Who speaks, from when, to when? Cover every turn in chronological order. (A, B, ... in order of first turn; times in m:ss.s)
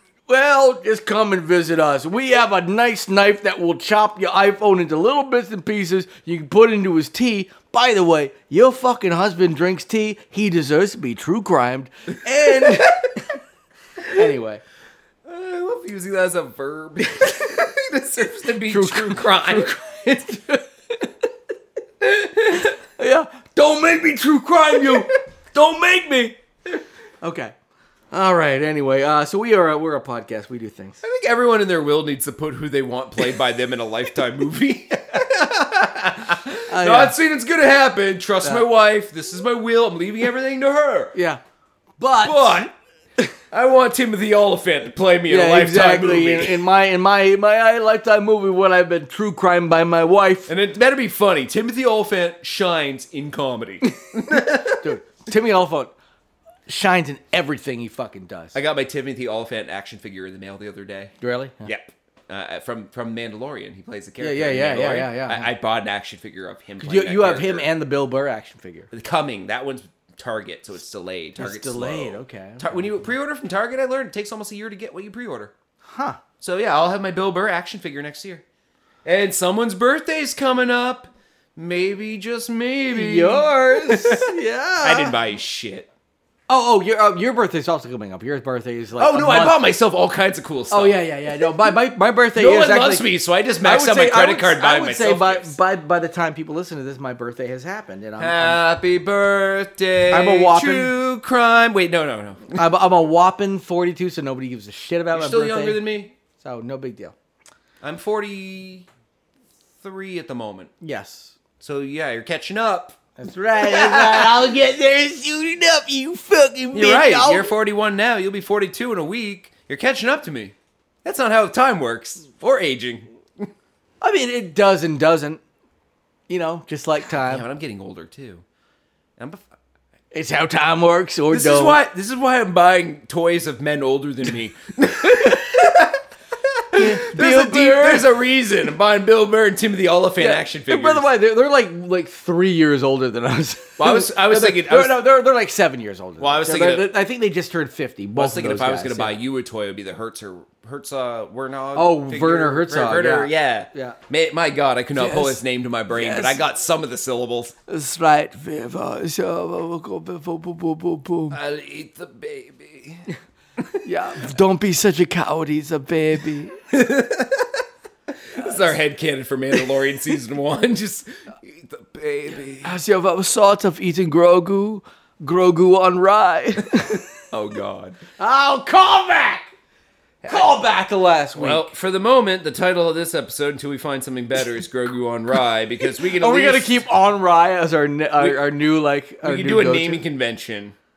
0:00.3-0:13.4 A
0:12.4-0:12.9 B
0:14.1-0:14.6 A
0:15.2-0:19.8 B
0:18.6-0:21.1 A
0:22.1-0:26.4 A
0:27.2-0:27.5 A
0:28.1-0:31.0 A
0:31.0-0:41.1 B
0:36.7-0:37.2 A
0:41.1-0:41.4 A
0:42.0-0:43.3 A
0:42.2-0:42.7 B
0:43.5-0:46.6 B
0:45.3-0:50.5 A
0:50.5-0:54.9 B
0:54.7-0:55.9 A
0:56.7-0:58.6 A
0:58.5-1:01.1 B
1:01.2-1:01.7 A
1:01.6-1:07.7 B
1:04.2-1:05.5 A
1:06.8-1:08.9 A
1:08.9-1:15.5 B
1:11.4-1:12.8 A
1:15.9-1:16.2 A
1:16.4-1:18.4 B
1:19.0-1:25.9 B
1:22.9-1:25.2 A
1:26.5-1:29.6 A
1:29.0-1:31.7 B
1:30.7-1:33.1 A
1:32.3-1:35.6 B
1:33.6-1:38.6 A
1:38.2-1:42.6 B
1:40.1-1:40.9 A
1:42.5-1:45.8 A
1:45.1-1:46.1 B
1:46.4-1:47.1 A
1:47.8-1:48.9 B
1:49.8-1:50.7 B
1:50.8-1:51.3 A
1:51.6-1:53.0 B
1:53.2-1:57.5 A
1:53.5-1:54.5 B
1:56.7-2:03.5 B
2:04.0-2:05.4 A
2:06.3-2:07.4 A
2:07.2-2:08.4 B
2:09.2-2:09.4 B
2:10.1-2:11.8 A
2:11.3-2:16.0 B
2:16.5-2:21.0 B
2:16.7-2:18.1 A
2:20.2-2:29.2 A
2:23.8-2:25.0 B
2:26.2-2:26.9 B
2:28.1-2:37.5 B
2:31.7-2:34.0 A
2:34.9-2:36.4 A
2:37.7-2:41.4 A
2:41.3-2:43.8 B
2:43.8-2:46.6 A
2:46.7-2:47.6 B
2:48.3-2:52.8 B
2:48.3-2:48.8 A
2:52.6-2:57.0 A
2:56.8-2:58.0 B
2:58.2-2:59.5 A
3:00.2-3:00.5 B
3:00.2-3:01.7 A
3:01.4-3:06.8 B
3:06.1-3:10.0 A
3:08.2-3:08.4 B
3:09.2-3:10.7 B